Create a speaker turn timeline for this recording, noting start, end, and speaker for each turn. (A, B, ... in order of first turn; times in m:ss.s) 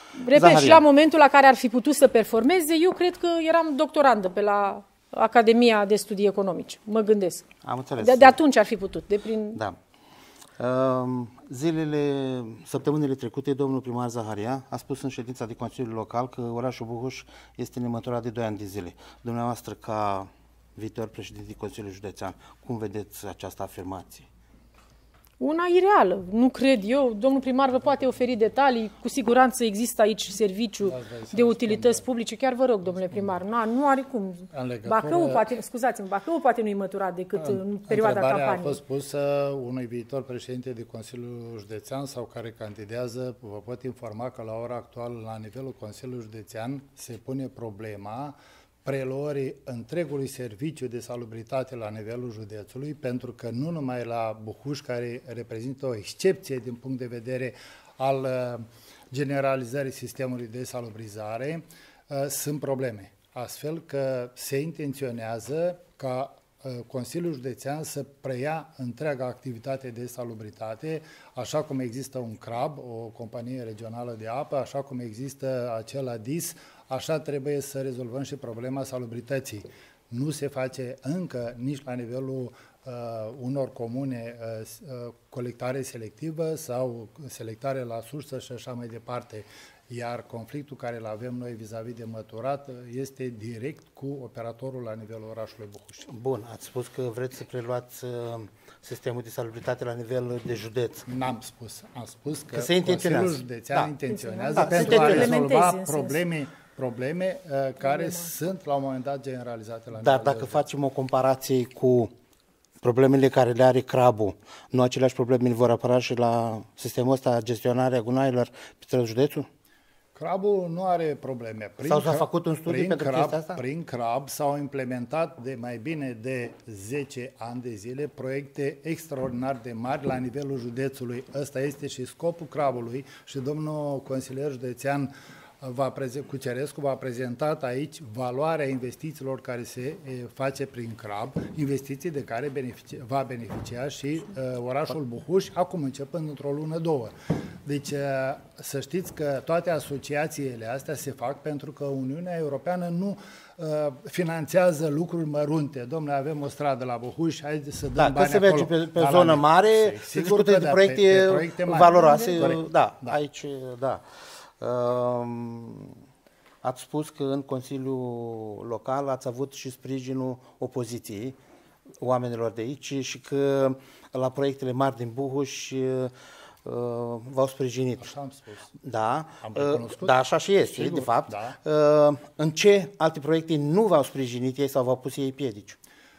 0:00.2-0:07.5 A
0:00.3-0:00.8 B
0:07.6-0:08.4 B
0:08.0-0:09.6 A
0:10.6-0:24.2 B
0:25.4-0:38.8 A
0:30.8-0:32.0 C
0:33.0-0:33.4 C
0:34.5-0:35.4 C
0:37.4-1:36.1 C
1:36.1-1:41.0 B
1:41.1-1:50.6 C
1:42.5-1:43.9 B
1:44.1-1:46.2 A
1:44.6-1:45.3 B
1:47.8-1:48.3 A
1:50.0-1:52.1 B
1:52.8-1:59.5 B
2:00.2-2:27.1 C
2:01.8-2:03.6 B
2:27.6-2:43.2 C
2:37.9-2:44.0 B
2:44.6-2:46.0 B
2:46.6-2:51.4 B
2:52.0-2:56.1 B
2:56.6-2:58.1 B
2:58.0-2:58.7 C
2:58.8-3:05.8 B
2:59.4-3:00.2 C
3:00.7-3:01.6 C